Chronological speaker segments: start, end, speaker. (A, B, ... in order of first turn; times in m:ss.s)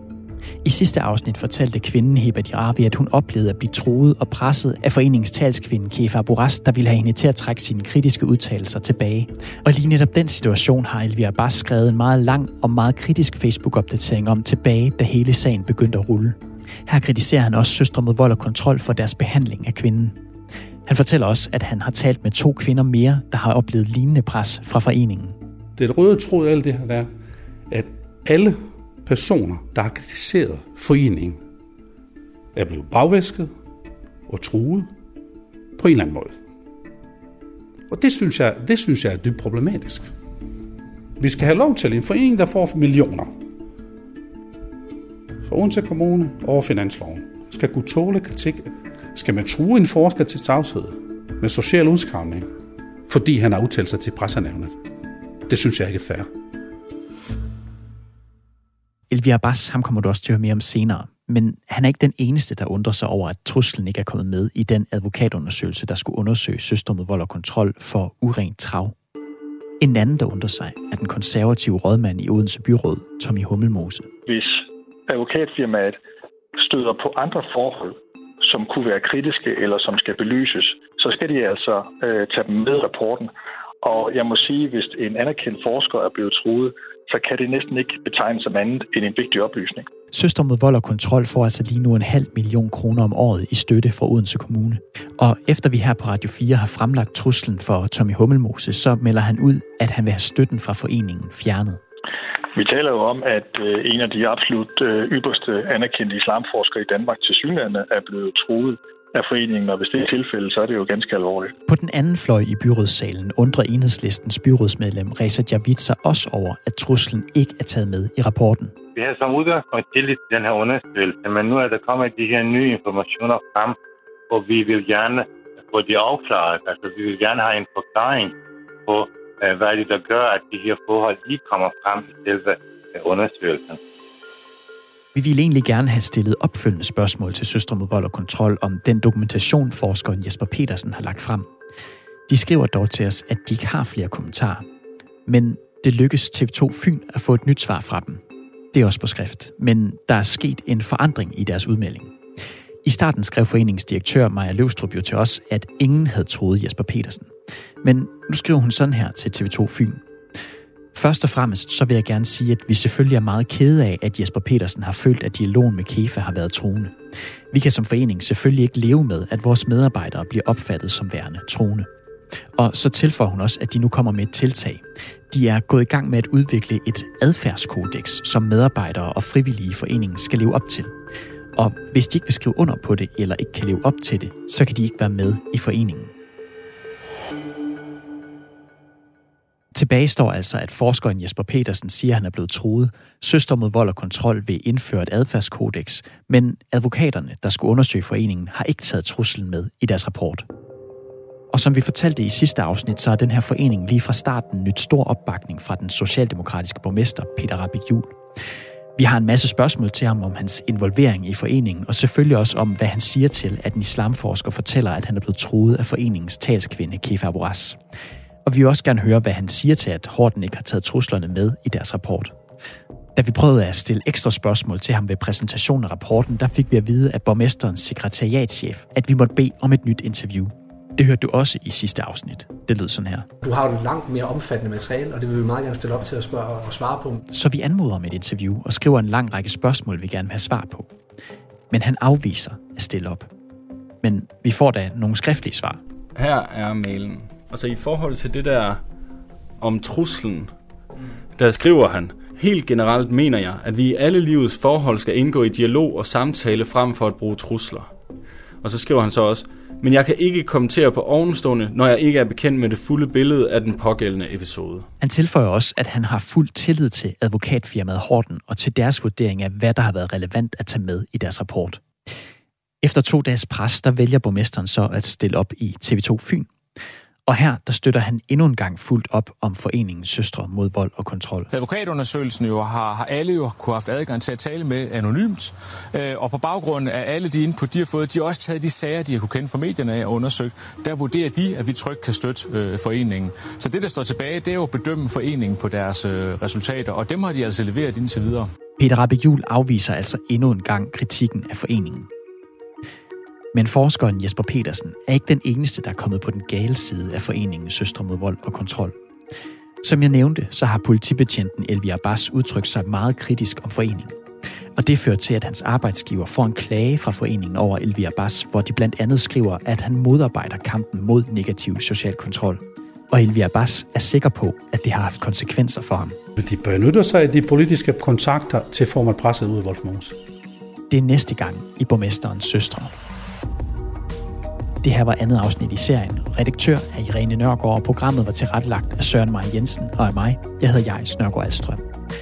0:00.6-0:20.2 A
0:20.8-0:25.4 A
0:25.8-0:27.1 B
0:27.7-0:31.4 B
0:32.5-0:33.5 B
0:34.3-0:34.9 B
0:35.8-0:36.4 B
0:37.9-0:40.1 B
0:41.2-0:43.3 B
0:45.4-0:52.5 B
0:53.0-0:54.7 B
0:55.5-0:56.3 B
0:59.1-1:08.9 A
1:09.8-1:14.1 A
1:14.3-1:16.0 C
1:16.6-1:29.9 C
1:30.1-1:41.8 A
1:42.5-1:51.5 C
1:51.7-1:58.7 A
1:58.9-2:03.8 D
2:04.3-2:08.3 D
2:08.9-2:13.8 D
2:15.1-2:21.5 A
2:22.3-2:24.6 A
2:25.2-2:32.2 A
2:32.8-2:37.3 A
2:37.8-2:40.0 A
2:40.9-2:47.0 A
2:47.5-2:51.9 A
2:52.6-3:00.9 A
3:01.6-3:06.1 A
3:09.7-3:20.4 A
3:21.5-3:28.2 A
3:29.0-3:37.8 A
3:38.4-3:42.4 A
3:43.1-3:53.3 A
3:53.4-3:57.2 E
3:57.3-4:00.9 A
4:01.7-4:03.3 A
4:04.0-4:05.8 A
4:06.2-4:08.8 F
4:09.6-4:10.5 F
4:11.4-4:17.9 F
4:18.6-4:24.9 F
4:25.0-4:31.8 A
4:32.8-4:36.5 A
4:37.2-4:41.5 A
4:41.5-4:58.5 G
4:58.8-5:02.1 A
5:03.5-5:08.9 A
5:09.8-5:14.2 A
5:14.8-5:26.2 A
5:26.4-5:30.2 B
5:30.9-5:32.9 A
5:34.8-5:41.9 A